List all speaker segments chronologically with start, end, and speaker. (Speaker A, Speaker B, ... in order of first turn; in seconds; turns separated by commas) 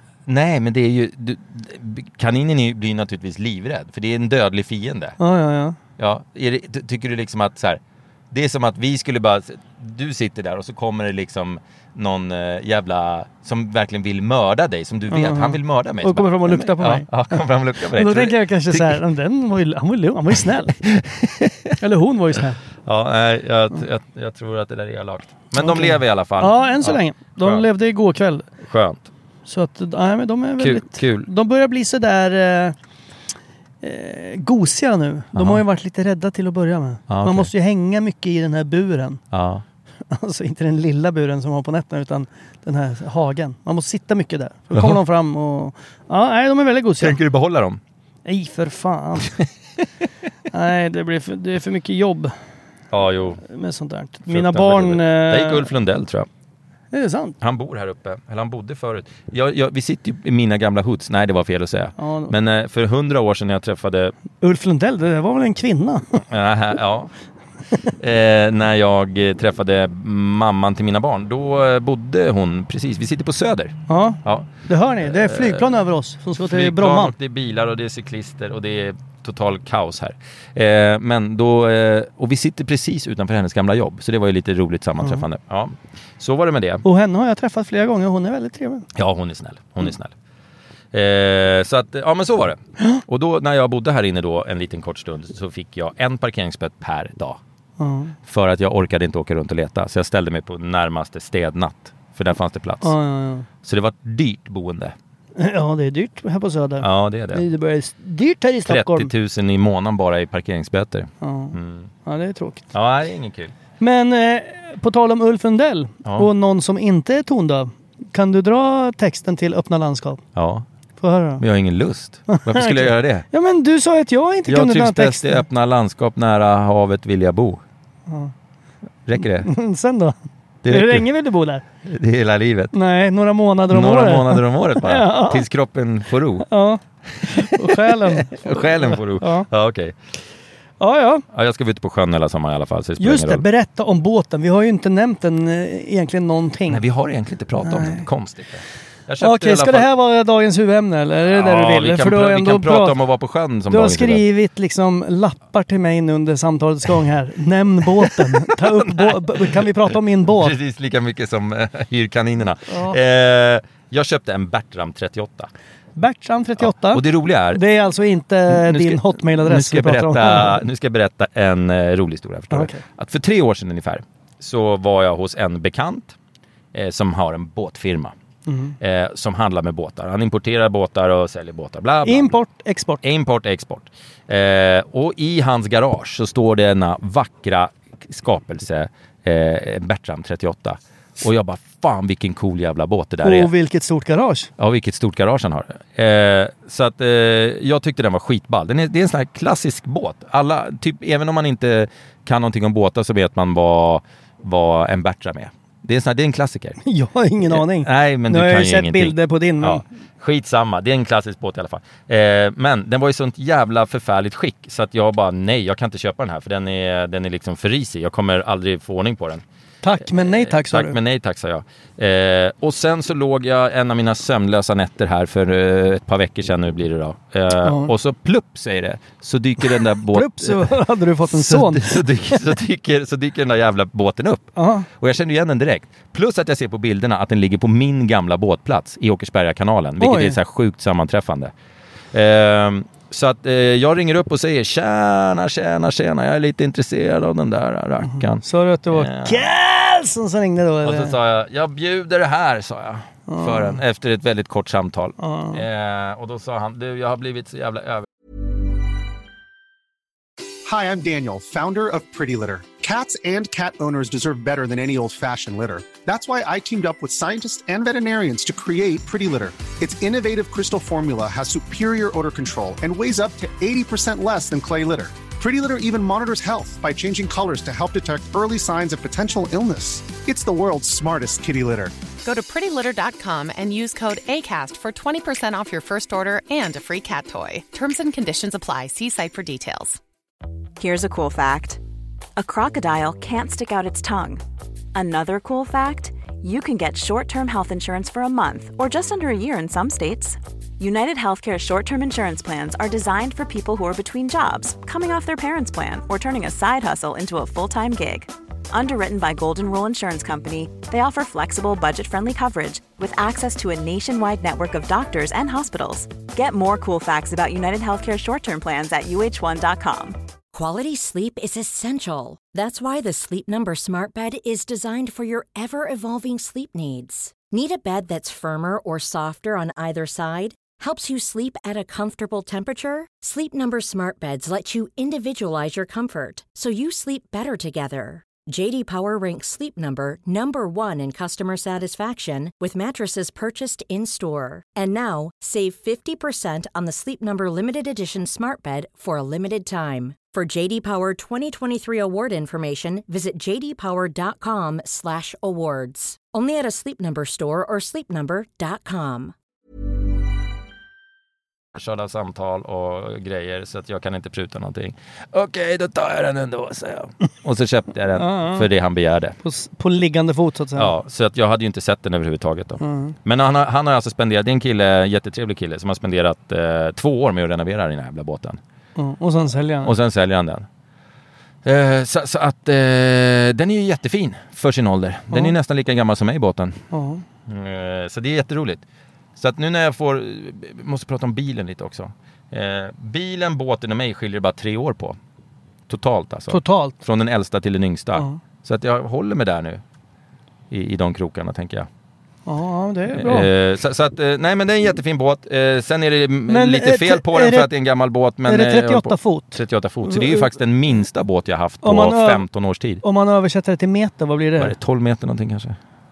Speaker A: 0.3-5.2, Speaker B: 5.2-5.8, Speaker A: 6.0-7.8, Speaker A: 8.3-19.0, Speaker B: 15.1-17.4, Speaker B: 17.9-20.8, Speaker A: 20.8-21.8, Speaker B: 21.8-22.6, Speaker A: 22.9-27.7, Speaker B: 25.6-28.5, Speaker A: 28.6-29.1, Speaker B: 29.5-32.8, Speaker A: 30.6-31.3, Speaker B: 33.8-39.2, Speaker A: 35.3-35.6, Speaker A: 37.1-37.5, Speaker A: 39.3-39.6, Speaker B: 40.1-47.2, Speaker A: 44.7-45.0, Speaker A: 47.0-47.8, Speaker B: 48.2-49.4, Speaker B: 50.5-52.4, Speaker A: 52.9-53.4, Speaker B: 53.5-55.7, Speaker A: 54.3-56.3, Speaker B: 56.9-57.4, Speaker A: 57.4-64.2, Speaker B: 62.0-62.3, Speaker B: 64.4-66.2, Speaker A: 66.3-67.1, Speaker A: 68.0-74.5, Speaker B: 73.9-77.1, Speaker A: 75.0-75.7, Speaker A: 76.4-86.8, Speaker B: 86.8-88.9, Speaker A: 89.0-90.1, Speaker A: 90.9-97.4, Speaker B: 97.8-98.2, Speaker A: 98.2-103.0, Speaker B: 102.8-103.5, Speaker A: 103.6-105.0, Speaker B: 105.4-109.1, Speaker A: 106.8-107.4, Speaker A: 108.7-111.9, Speaker B: 111.2-112.7, Speaker A: 112.7-113.5, Speaker B: 113.8-120.2, Speaker A: 120.3-120.7, Speaker B: 121.0-121.4, Speaker A: 121.4-123.3, Speaker B: 122.3-125.4, Speaker A: 124.5-127.6, Speaker A: 129.1-129.5, Speaker B: 129.4-130.2, Speaker A: 130.6-131.1, Speaker B: 130.7-131.6, Speaker A: 131.8-132.7, Speaker B: 132.7-135.5, Speaker A: 133.7-136.5, Speaker B: 136.5-139.5, Speaker A: 137.2-140.0, Speaker B: 140.8-141.2, Speaker A: 141.3-143.4, Speaker B: 143.0-146.8, Speaker A: 146.7-149.9, Speaker B: 147.6-148.1, Speaker B: 149.2-153.0, Speaker A: 151.3-154.2, Speaker B: 153.7-160.6, Speaker A: 158.0-165.5, Speaker B: 162.7-163.0, Speaker B: 166.0-170.6, Speaker A: 166.6-167.6, Speaker A: 168.5-176.2, Speaker B: 172.5-172.8, Speaker A: 176.7-178.1, Speaker B: 178.5-178.8, Speaker A: 178.8-182.3, Speaker B: 182.0-183.0, Speaker A: 183.0-193.5, Speaker B: 193.2-194.5, Speaker A: 194.6-206.8, Speaker B: 206.8-209.8, Speaker A: 207.5-219.4, Speaker B: 219.8-221.0, Speaker A: 220.0-241.5, Speaker B: 227.6-227.9, Speaker B: 229.7-232.4, Speaker B: 234.6-234.9, Speaker B: 240.0-240.4, Speaker A: 242.1-249.5, Speaker B: 248.0-251.2, Speaker A: 250.8-258.1, Speaker B: 253.3-253.8, Speaker B: 255.2-255.6, Speaker C: 260.7-281.9, Speaker D: 282.2-290.0, Speaker E: 290.8-291.8, Speaker E: 292.4-294.4, Speaker E: 294.9-320.2, Speaker F: 320.5-359.3, Speaker A: 361.8-369.4, Speaker B: 368.2-368.6, Speaker B: 369.4-370.9, Speaker A: 370.8-378.6, Speaker B: 372.8-373.2, Speaker B: 379.0-379.9, Speaker A: 379.8-380.7, Speaker A: 381.6-386.8, Speaker B: 386.9-387.2, Speaker A: 387.5-388.8, Speaker A: 389.4-395.2, Speaker A: 395.9-399.8, Speaker B: 396.5-397.0, Speaker B: 398.1-398.4, Speaker A: 400.7-401.9, Speaker B: 402.5-403.5, Speaker A: 403.1-413.0, Speaker B: 406.5-407.7, Speaker B: 408.5-410.5, Speaker B: 411.8-412.4, Speaker B: 413.0-414.8, Speaker A: 414.6-415.8